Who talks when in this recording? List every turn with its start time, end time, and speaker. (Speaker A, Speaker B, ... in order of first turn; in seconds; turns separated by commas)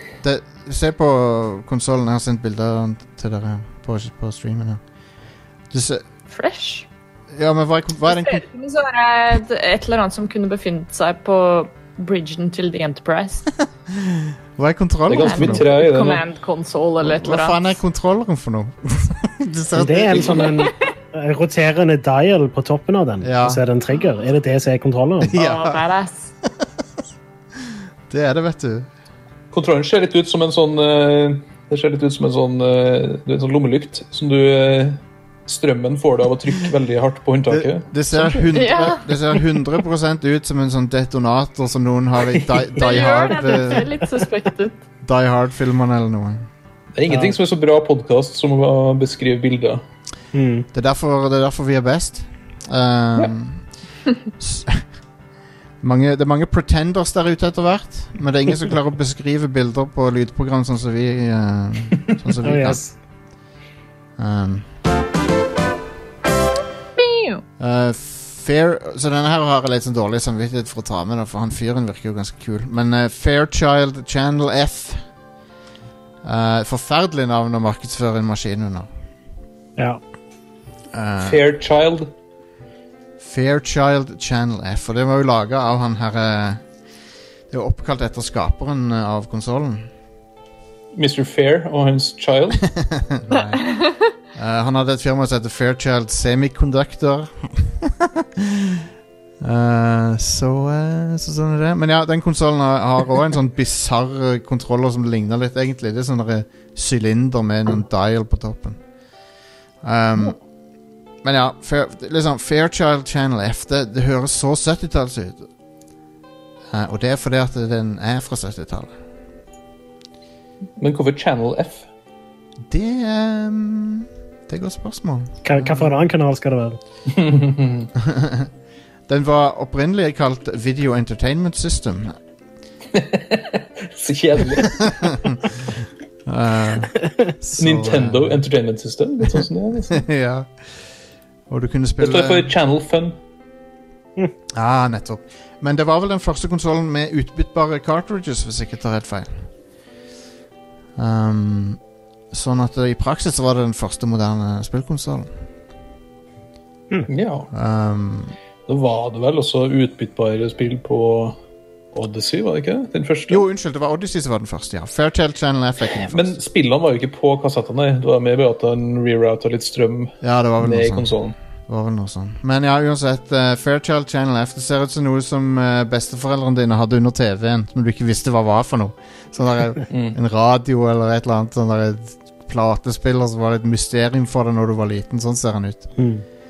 Speaker A: 0.2-4.8, Speaker A: 5.7-6.0, Speaker B: 6.3-6.9, Speaker A: 7.3-8.5, Speaker B: 8.1-13.5, Speaker A: 13.9-15.6, Speaker C: 15.1-16.2, Speaker B: 15.2-17.8, Speaker A: 17.0-20.7, Speaker D: 19.8-25.4, Speaker A: 23.2-23.6, Speaker A: 25.2-25.8, Speaker B: 25.3-26.3, Speaker A: 28.1-28.9, Speaker C: 29.5-37.9, Speaker A: 37.5-44.0, Speaker B: 38.5-39.1, Speaker C: 42.4-42.7, Speaker B: 42.8-44.8, Speaker A: 45.0-46.5, Speaker C: 47.0-49.8, Speaker D: 47.1-47.4, Speaker D: 50.3-50.7, Speaker A: 50.7-53.6, Speaker A: 54.4-54.8, Speaker A: 55.8-62.8, Speaker D: 62.4-62.9, Speaker A: 64.2-64.7, Speaker B: 67.0-67.4, Speaker A: 67.6-75.0, Speaker A: 76.2-78.9, Speaker A: 80.9-81.4, Speaker C: 81.2-82.1, Speaker A: 83.2-86.6, Speaker A: 87.5-89.9, Speaker C: 91.0-92.7, Speaker A: 92.8-93.6, Speaker A: 94.3-98.9, Speaker A: 99.4-108.8, Speaker A: 109.8-110.4, Speaker A: 111.2-115.5, Speaker A: 116.7-118.9, Speaker C: 120.8-121.9, Speaker A: 122.7-125.9, Speaker D: 125.5-126.8, Speaker C: 127.1-127.9, Speaker A: 128.0-128.5, Speaker A: 129.1-132.2, Speaker C: 132.9-135.1, Speaker A: 134.5-135.5, Speaker A: 136.2-138.4, Speaker C: 137.6-140.0, Speaker A: 139.9-140.5, Speaker A: 141.5-142.5, Speaker C: 142.0-143.2, Speaker A: 144.5-149.4, Speaker A: 151.0-151.8, Speaker A: 152.3-155.3, Speaker C: 157.1-157.5, Speaker A: 157.5-158.3, Speaker C: 158.7-161.4, Speaker C: 161.9-163.4, Speaker A: 163.3-166.4, Speaker C: 166.1-171.4, Speaker A: 170.2-171.1, Speaker A: 171.7-185.9, Speaker C: 179.9-180.2, Speaker D: 186.0-186.2